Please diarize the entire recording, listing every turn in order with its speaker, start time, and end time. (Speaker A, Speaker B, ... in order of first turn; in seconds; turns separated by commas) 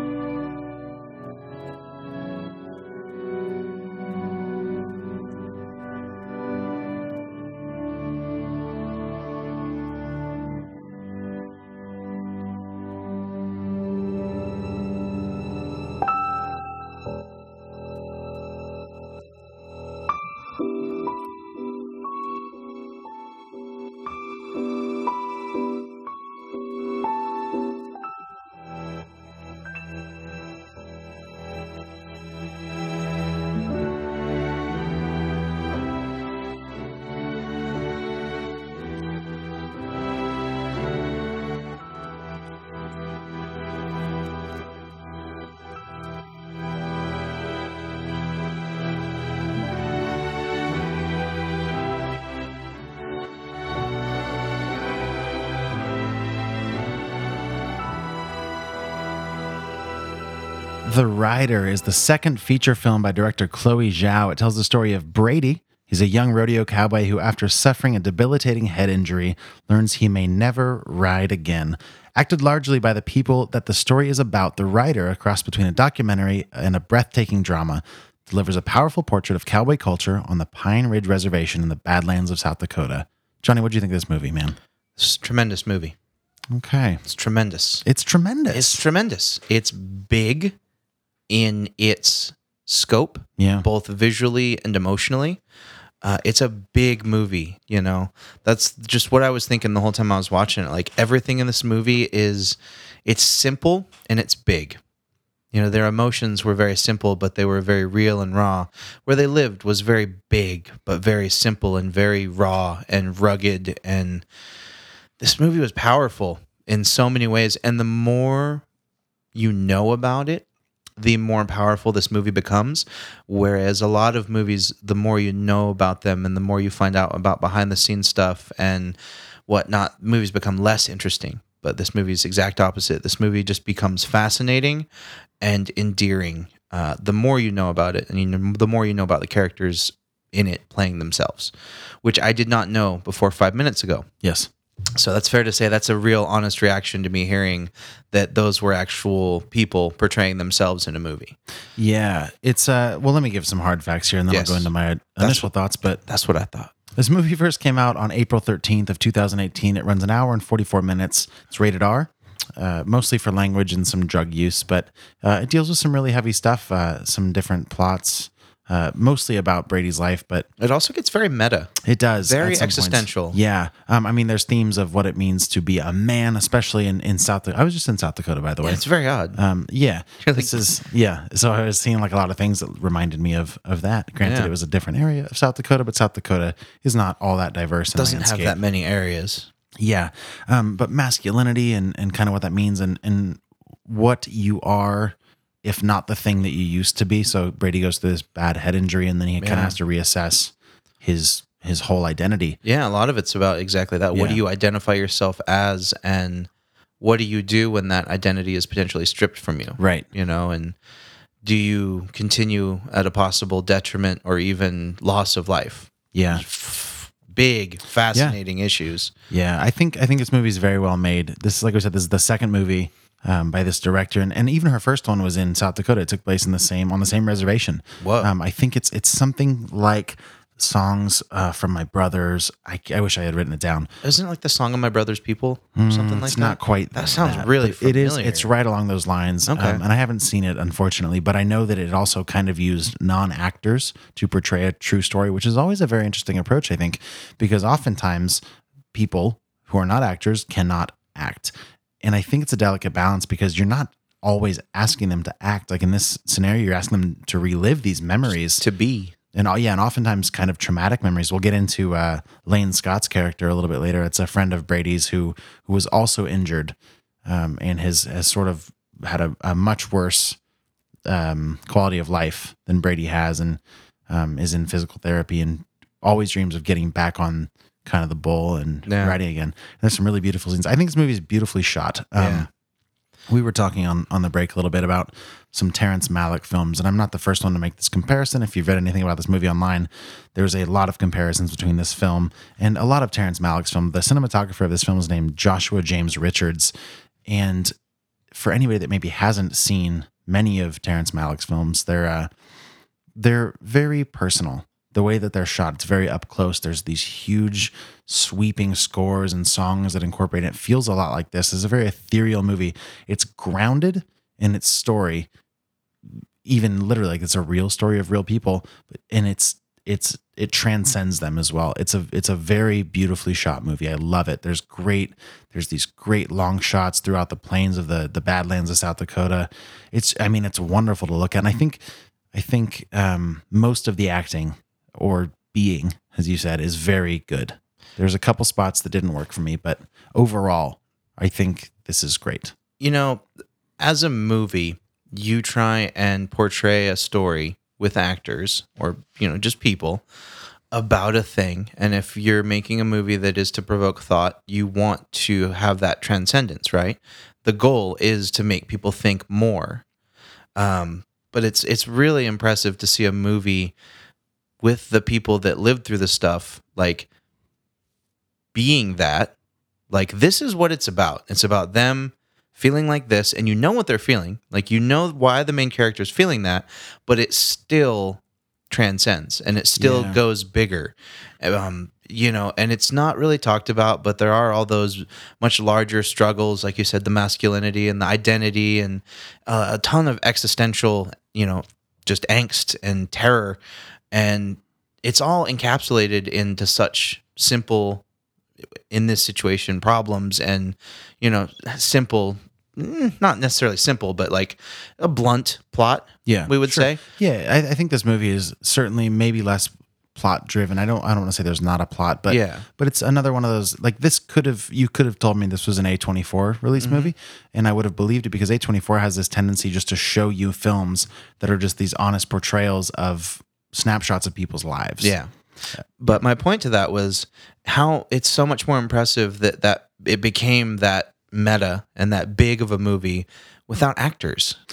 Speaker A: 60.8-84.6, Speaker B: 85.0-85.9, Speaker A: 86.5-87.0, Speaker B: 87.0-87.8, Speaker A: 87.8-88.8, Speaker B: 88.5-90.5, Speaker B: 91.3-95.4, Speaker A: 93.4-93.7, Speaker B: 96.0-104.8, Speaker B: 105.5-114.2, Speaker B: 115.2-118.6, Speaker B: 119.3-120.4, Speaker B: 121.0-128.9, Speaker B: 129.5-134.9, Speaker B: 135.4-141.5, Speaker B: 142.0-144.1, Speaker A: 144.2-144.5, Speaker B: 144.9-151.3, Speaker A: 151.8-156.0, Speaker B: 154.3-155.5, Speaker B: 156.0-156.7, Speaker A: 156.9-170.5, Speaker B: 170.6-173.4, Speaker A: 171.8-178.8, Speaker B: 178.6-179.4, Speaker A: 179.3-188.6, Speaker B: 180.2-180.6, Speaker B: 184.2-184.5, Speaker B: 187.9-189.5, Speaker A: 189.8-202.6, Speaker B: 199.4-199.8, Speaker B: 202.6-206.5, Speaker A: 204.1-204.4, Speaker B: 207.0-210.7, Speaker A: 209.8-210.1, Speaker B: 211.4-219.1, Speaker A: 216.1-216.4, Speaker A: 219.3-233.9, Speaker B: 228.0-228.3, Speaker B: 234.0-238.5, Speaker A: 235.7-248.4, Speaker B: 239.5-239.8, Speaker A: 248.9-258.6, Speaker B: 258.6-259.1, Speaker A: 259.3-270.4, Speaker A: 271.1-282.5, Speaker B: 278.9-279.2, Speaker B: 282.1-282.5, Speaker A: 283.3-296.7, Speaker A: 297.3-297.7, Speaker A: 298.3-302.3, Speaker A: 303.1-315.3, Speaker A: 316.4-331.8, Speaker A: 332.3-342.5, Speaker B: 342.8-343.2, Speaker B: 343.8-350.0, Speaker B: 350.7-359.8, Speaker B: 360.6-363.7, Speaker B: 364.6-367.1, Speaker B: 368.5-369.3, Speaker B: 369.9-393.6, Speaker A: 379.8-380.2, Speaker B: 394.1-398.0, Speaker B: 398.9-407.0, Speaker A: 406.2-425.1, Speaker B: 412.3-412.6, Speaker B: 416.8-417.1, Speaker B: 425.0-425.3, Speaker B: 426.0-434.6